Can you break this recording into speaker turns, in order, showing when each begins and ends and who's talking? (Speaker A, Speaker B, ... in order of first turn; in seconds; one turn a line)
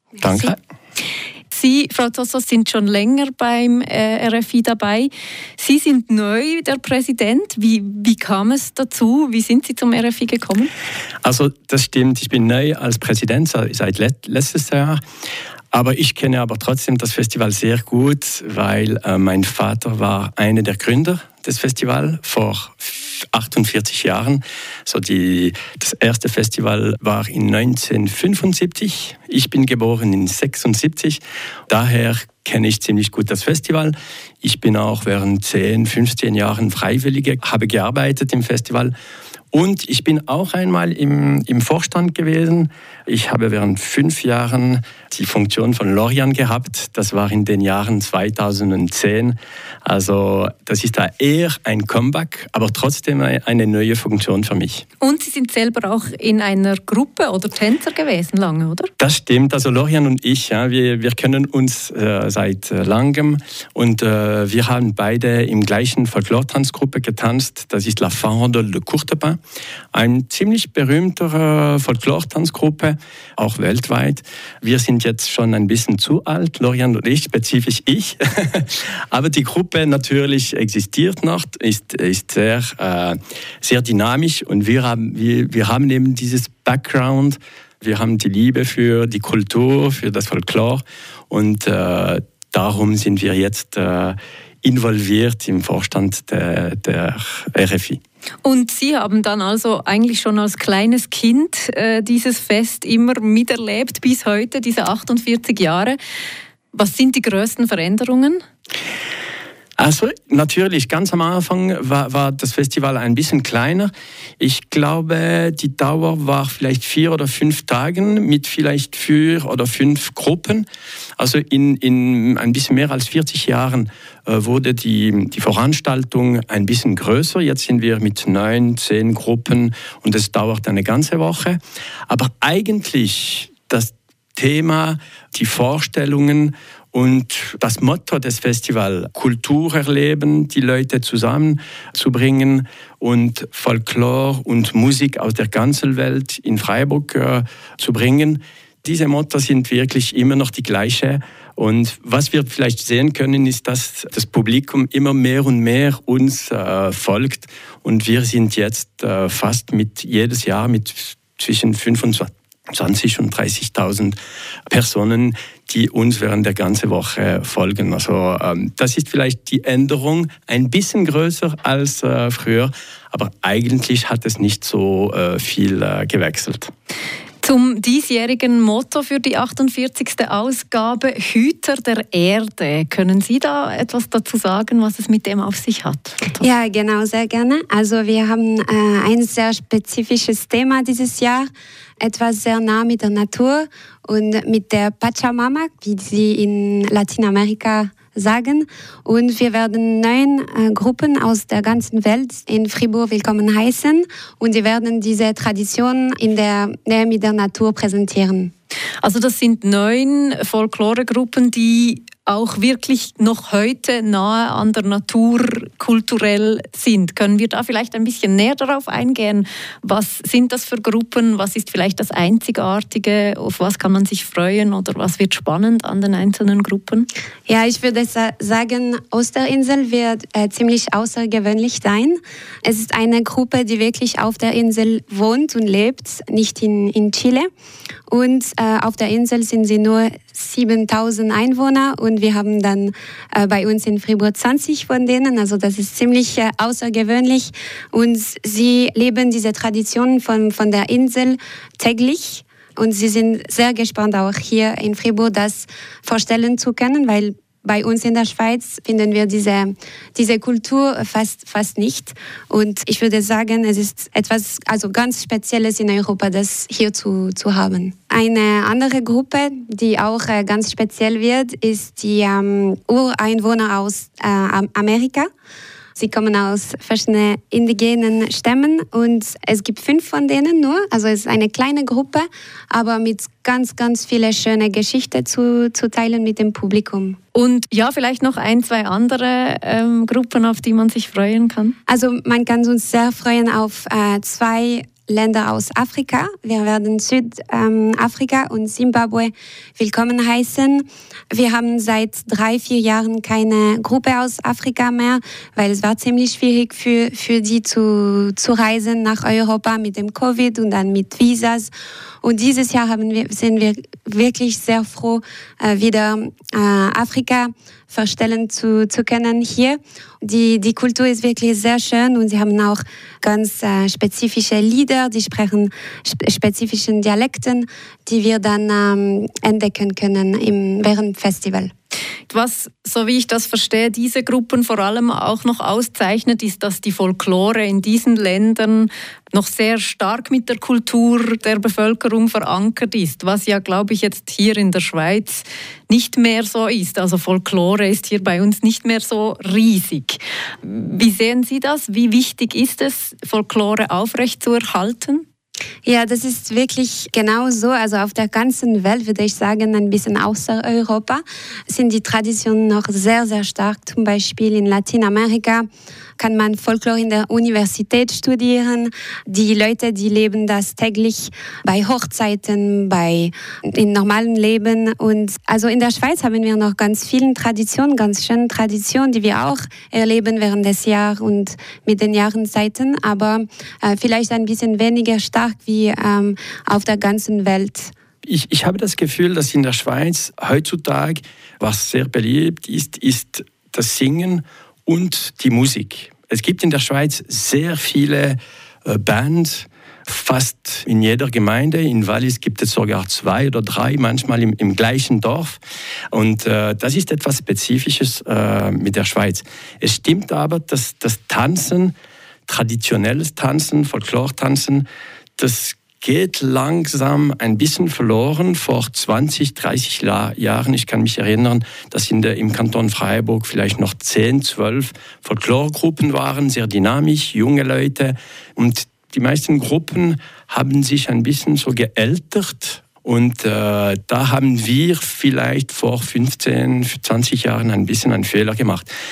Speaker A: 0.2-0.6
Speaker B: 1.5-10.7
Speaker A: 11.2-15.0
Speaker A: 15.7-38.9
Speaker A: 39.5-54.8
Speaker B: 55.0-58.9
Speaker A: 59.0-69.4
Speaker A: 69.9-98.0
Speaker B: 98.4-106.0
Speaker B: 106.7-108.4
Speaker A: 109.8-120.6
Speaker A: 121.2-164.2
Speaker A: 164.7-176.7
Speaker B: 177.4-186.4
Speaker C: 186.4-191.5
Speaker C: 192.0-208.5
Speaker B: 209.0-227.1
Speaker C: 227.5-237.5
Speaker C: 238.1-275.3
Speaker C: 275.9-287.2
Speaker B: 287.3-291.7
Speaker C: 291.9-331.7
Speaker B: 332.3-355.2
Speaker C: 355.8-365.7
Speaker C: 366.2-387.9
Speaker A: 388.2-405.6
Speaker A: 406.1-411.9
Speaker A: 412.5-414.8
Speaker A: 415.4-438.9